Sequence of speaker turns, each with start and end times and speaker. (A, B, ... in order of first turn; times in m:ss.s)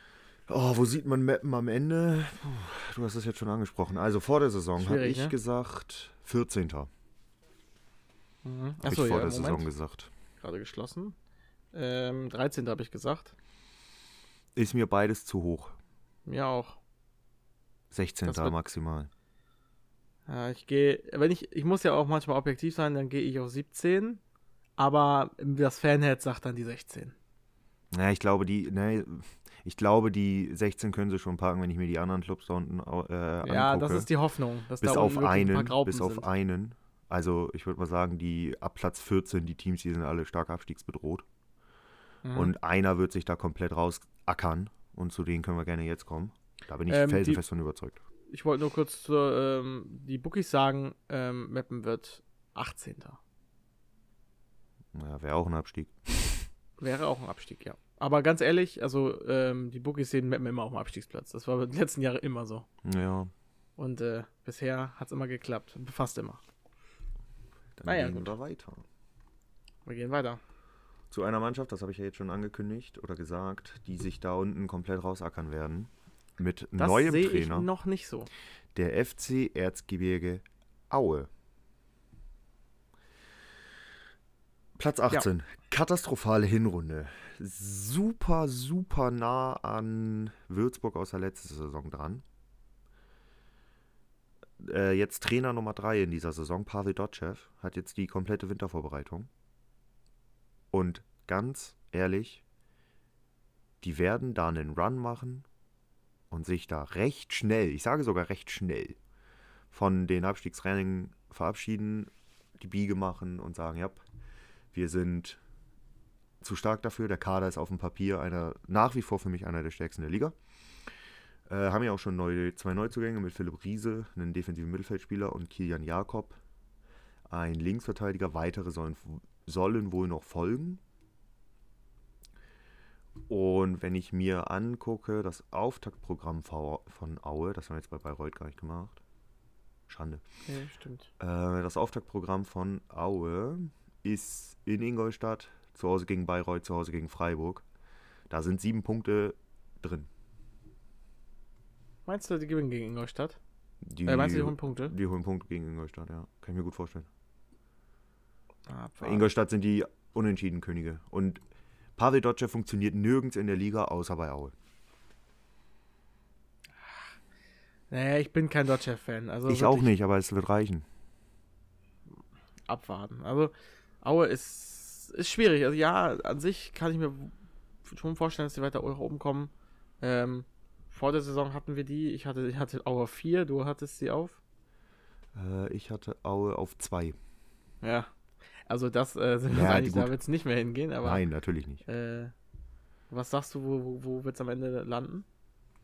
0:00.5-0:06.9 A
0:04.8-0:05.4 B
0:08.4-0:09.7 B
0:08.8-0:10.1 A
0:10.4-0:11.1 B
0:11.7-0:13.3 B
0:14.5-0:15.8 A
0:16.3-0:16.8 B
0:17.9-0:19.1 A
0:18.2-0:18.5 B
0:20.3-0:24.2 B
0:24.8-0:27.1 B
0:27.9-0:34.1 A
0:33.4-0:36.3 B
0:34.8-0:41.2 A
0:42.2-0:42.5 B
0:42.3-0:48.0 A
0:46.9-0:47.4 B
0:48.3-0:53.2 B
0:54.9-0:56.3 A
0:56.8-1:02.7 B
1:02.8-1:03.3 A
1:03.8-1:06.4 B
1:07.8-1:08.8 A
1:07.8-1:08.3 B
1:09.8-1:10.4 B
1:11.1-1:17.7 A
1:16.8-1:18.3 B
1:18.7-1:21.3 A
1:24.8-1:32.2 A
1:34.6-1:39.3 A
1:40.7-1:42.4 A
1:43.8-1:45.4 A
1:46.3-1:49.0 A
1:49.7-1:54.0 A
1:54.7-1:55.4 A
1:56.4-2:00.4 A
2:01.5-2:06.4 A
2:07.3-2:10.8 A
2:13.3-2:19.0 A
2:19.9-2:20.2 A
2:20.4-2:21.1 B
2:21.2-2:27.6 A
2:28.3-2:30.1 A
2:32.1-2:33.4 B
2:33.8-2:37.1 A
2:34.0-2:34.9 B
2:38.7-2:39.2 B
2:39.0-2:41.4 A
2:42.0-2:44.5 A
2:46.8-2:47.1 B
2:47.9-2:49.9 B
2:49.5-2:50.8 A
2:52.7-2:57.3 B
2:57.8-3:04.4 B
3:05.3-3:07.2 A
3:07.8-3:08.1 B
3:08.7-3:11.2 B
3:09.5-3:10.1 A
3:11.0-3:11.8 A
3:11.8-3:12.3 B
3:13.1-3:15.2 B